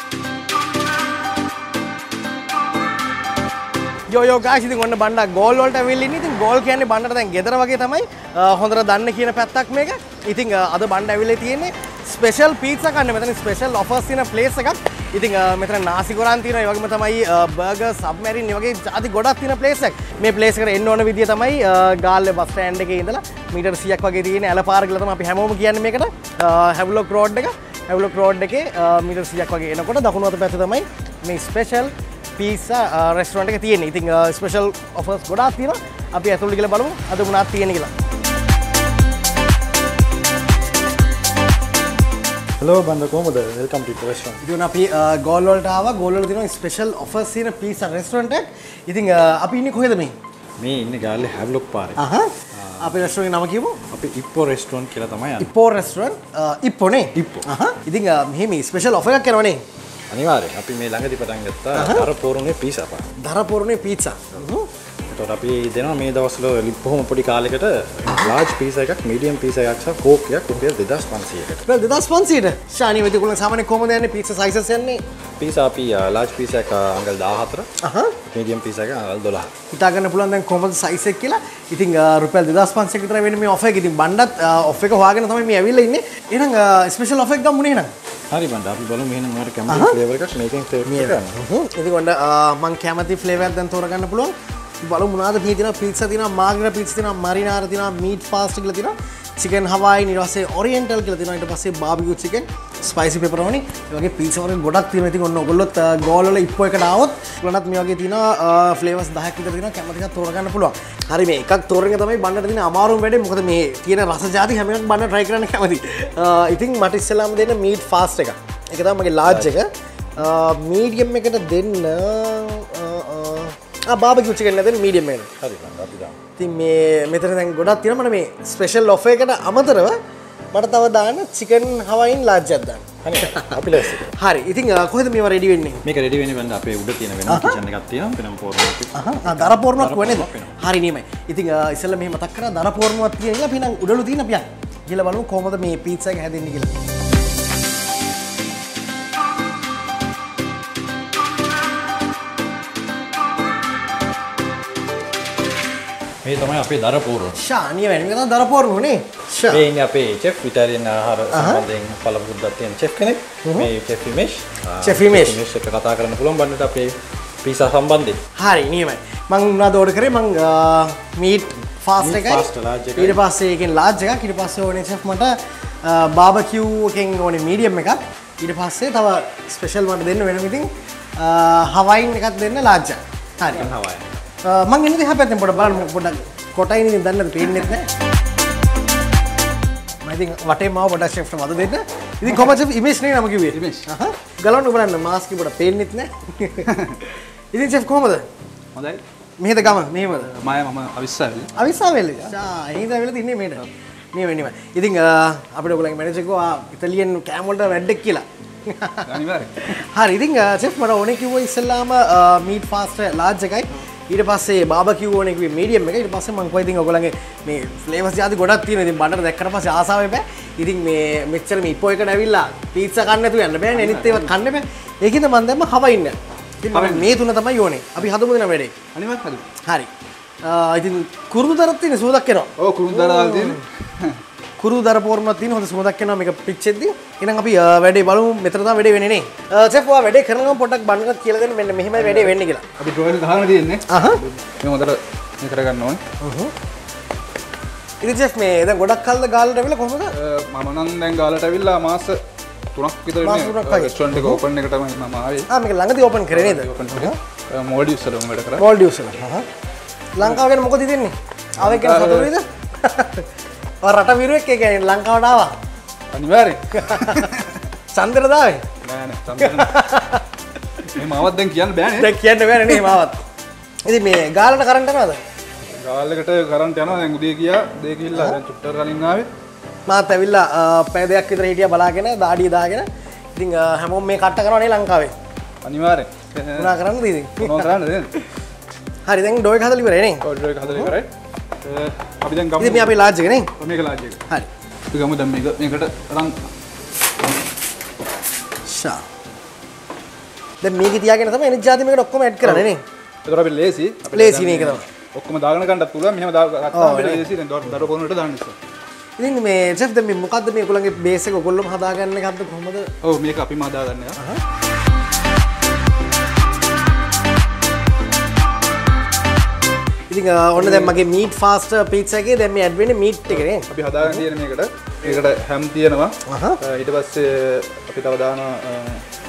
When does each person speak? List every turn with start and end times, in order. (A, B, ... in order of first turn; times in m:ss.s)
0:04.1-0:37.9 A
0:42.6-0:44.4 B
0:44.4-0:50.1 A
0:50.6-0:52.0 B
0:52.0-0:53.8 A
0:52.5-0:53.0 B
0:53.9-0:55.5 B
0:55.4-0:59.6 A
0:57.1-0:57.5 B
1:00.1-1:03.1 B
1:01.7-1:02.1 A
1:03.2-1:04.7 A
1:05.1-1:11.6 B
1:11.6-1:15.0 A
1:15.4-1:17.7 B
1:17.8-1:18.2 A
1:18.3-1:19.5 B
1:19.7-1:27.9 A
1:28.3-1:31.4 B
1:29.7-1:30.0 A
1:30.9-2:05.3 A
1:59.2-1:59.5 B
2:05.4-2:06.2 B
2:06.4-2:10.0 A
2:10.5-2:15.8 A
2:13.0-2:14.1 B
2:15.8-2:20.6 B
2:17.3-2:17.6 A
2:18.9-2:26.7 A
2:36.2-2:37.4 B
2:37.4-2:39.6 A
2:39.5-2:48.2 B
2:41.3-2:41.6 A
2:43.4-2:43.7 A
2:44.8-2:45.4 A
2:48.4-3:03.7 A
2:52.0-2:53.2 B
3:03.5-3:04.2 B
3:04.4-3:07.9 A
3:10.0-3:16.8 A
3:13.5-3:13.9 C
3:16.6-3:17.0 C
3:17.5-3:18.2 A
3:18.7-3:19.0 C
3:19.4-3:20.3 A
3:20.2-3:21.5 C
3:21.6-3:48.7 A
3:29.0-3:29.7 C
3:43.7-3:44.3 C
3:46.7-3:47.1 C
3:48.9-3:49.4 C
3:49.6-3:49.9 A
3:50.4-3:53.6 A
3:52.6-3:54.2 C
3:54.6-4:02.6 A
4:01.9-4:06.0 C
4:03.9-4:04.2 A
4:06.2-4:06.5 A
4:08.0-4:10.1 A
4:10.1-4:12.2 C
4:12.7-4:15.5 C
4:13.2-4:14.4 A
4:15.5-4:17.2 A
4:16.3-4:18.6 C
4:18.6-4:19.5 A
4:20.2-4:23.3 A
4:21.6-4:22.3 C
4:23.8-4:25.5 A
4:26.1-4:27.6 C
4:26.7-4:27.3 A
4:27.9-4:28.6 A
4:28.8-4:29.8 C
4:29.4-4:30.2 A
4:30.9-4:32.1 C
4:32.0-4:33.2 A
4:33.8-4:35.2 A
4:35.8-4:39.3 C
4:39.9-4:45.1 A
4:45.6-4:46.7 C
4:46.5-4:47.7 A
4:47.4-4:48.2 C
4:49.1-4:50.9 A
4:50.2-4:51.1 C
4:51.6-4:52.9 C
4:52.6-4:53.5 A
4:53.6-4:54.2 C
4:54.9-4:56.4 C
4:58.6-4:59.0 A
5:00.6-5:02.8 A
5:02.4-5:02.7 C
5:03.2-5:08.6 C
5:04.1-5:04.8 A
5:06.7-5:07.2 A
5:09.2-5:12.9 A
5:13.0-5:14.2 C
5:14.2-5:14.4 A
5:20.1-5:24.2 A
5:20.6-5:20.9 C
5:23.3-5:29.0 C
5:26.2-5:26.6 A